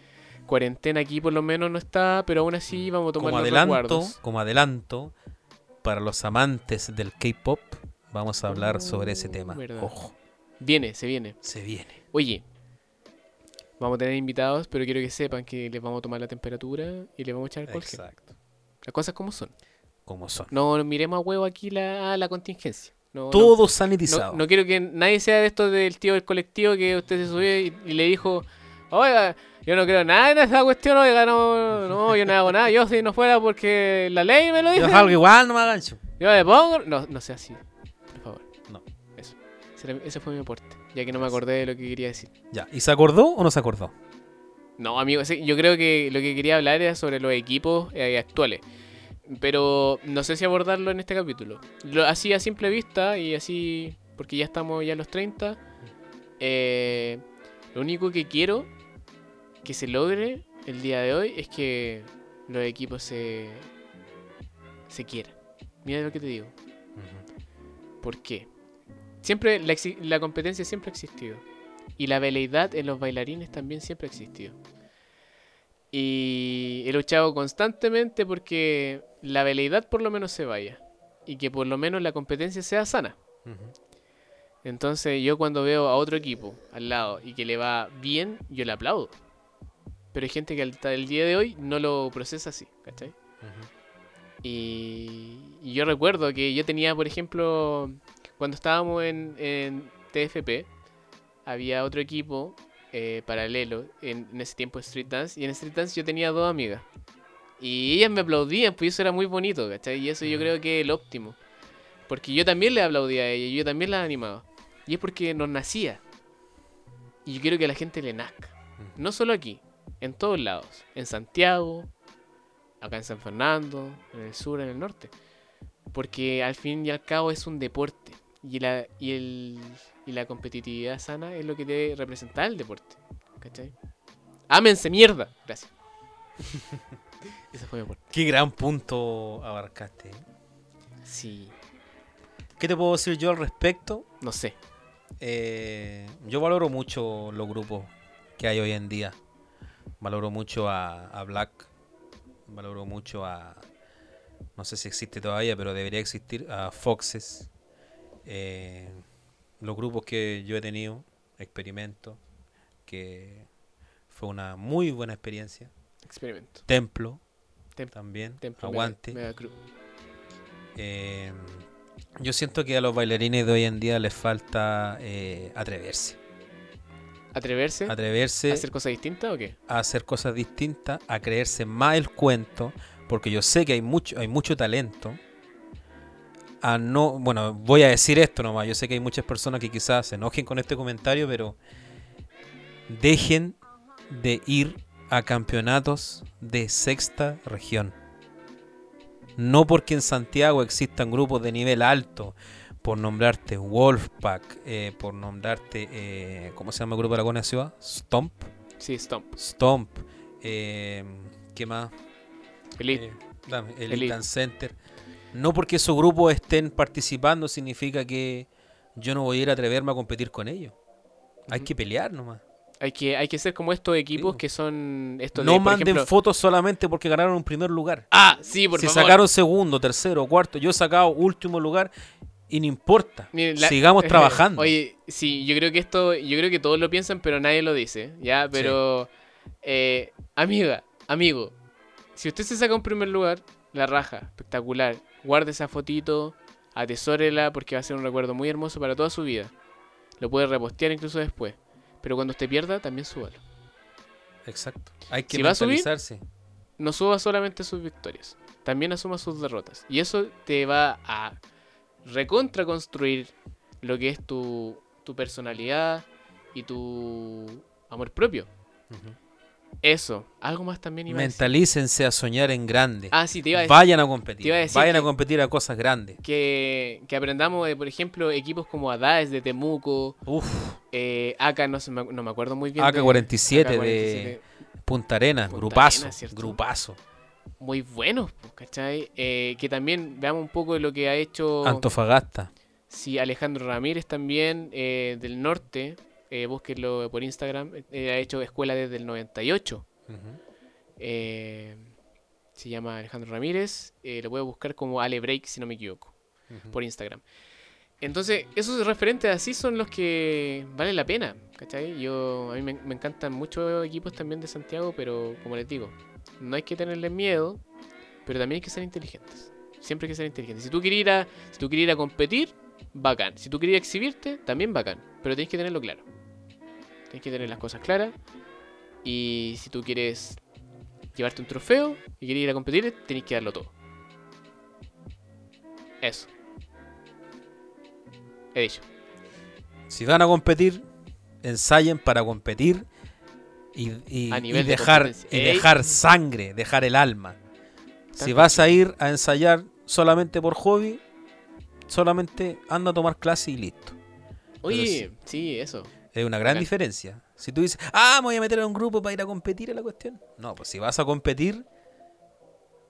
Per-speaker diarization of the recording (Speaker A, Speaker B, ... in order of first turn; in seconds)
Speaker A: 0.5-4.2, 8.5-9.9, 10.6-11.4, 12.1-12.4, 13.8-18.0, 18.8-19.5, 20.5-35.2, 36.2-38.5, 39.2-42.3, 44.8-48.6, 49.2-55.6, 56.4-57.2, 57.7-58.7, 59.6-63.7, 64.9-66.5, 68.0-68.5, 69.2-71.4, 72.0-74.6, 75.9-83.2, 84.6-89.1, 90.1-93.1, 94.4-100.7, 101.5-106.8, 107.6-111.4, 112.1-116.0, 117.2-121.9, 122.8-125.1, 125.9-133.7, 134.5-135.7, 137.5-138.0, 141.0-141.6, 144.2-144.5, 166.1-166.6, 167.8-169.5, 177.3-177.9, 178.5-179.6, 208.8-209.3, 212.8-213.0, 213.9-214.2, 222.8-226.1, 228.1-229.2, 233.3-239.1, 239.6-241.6, 242.2-249.5, 250.2-253.4, 255.3-255.9, 256.8-261.4, 262.0-268.5, 269.8-271.5, 273.1-273.8, 274.4-275.1, 276.2-280.2, 280.9-284.4, 285.5-286.6, 287.6-291.9, 292.9-299.9, 301.0-301.9, 302.6-306.1, 306.7-307.2, 308.0-317.6, 318.2-326.0, 327.1-328.1, 329.0-330.4, 331.1-333.7, 336.0-336.3, 338.5-338.9, 344.3-345.7, 348.1-348.8, 354.6-355.9
Speaker B: 2.7-5.1, 5.8-10.1, 11.4-12.0, 17.7-18.3, 20.1-20.5, 23.3-24.4, 34.7-36.0, 42.5-43.9, 67.0-67.2, 83.5-83.7, 93.4-93.7, 110.2-110.5, 138.1-140.2, 142.6-144.1, 145.2-149.2, 150.0-151.7, 152.5-153.6, 154.6-157.5, 158.2-159.0, 159.6-162.2, 162.9-163.5, 164.1-165.7, 166.7-167.2, 167.9-169.2, 170.8-171.6, 172.2-176.2, 177.9-178.7, 179.7-185.2, 186.6-191.6, 192.9-193.6, 194.1-197.9, 199.4-208.5, 209.4-211.9, 212.9-214.8, 215.3-220.8, 221.5-222.4, 224.2-224.4, 225.3-228.1, 228.7-231.9, 232.5-234.7, 238.5-238.8, 254.4-256.2, 268.9-269.2, 271.1-276.2, 280.2-280.8, 282.8-287.0, 291.6-292.5, 300.1-300.4, 306.5-306.8, 339.9-340.9, 341.4-342.9, 343.7-347.4, 348.1-351.0, 351.9-354.0, 354.7-355.1, 356.1-361.6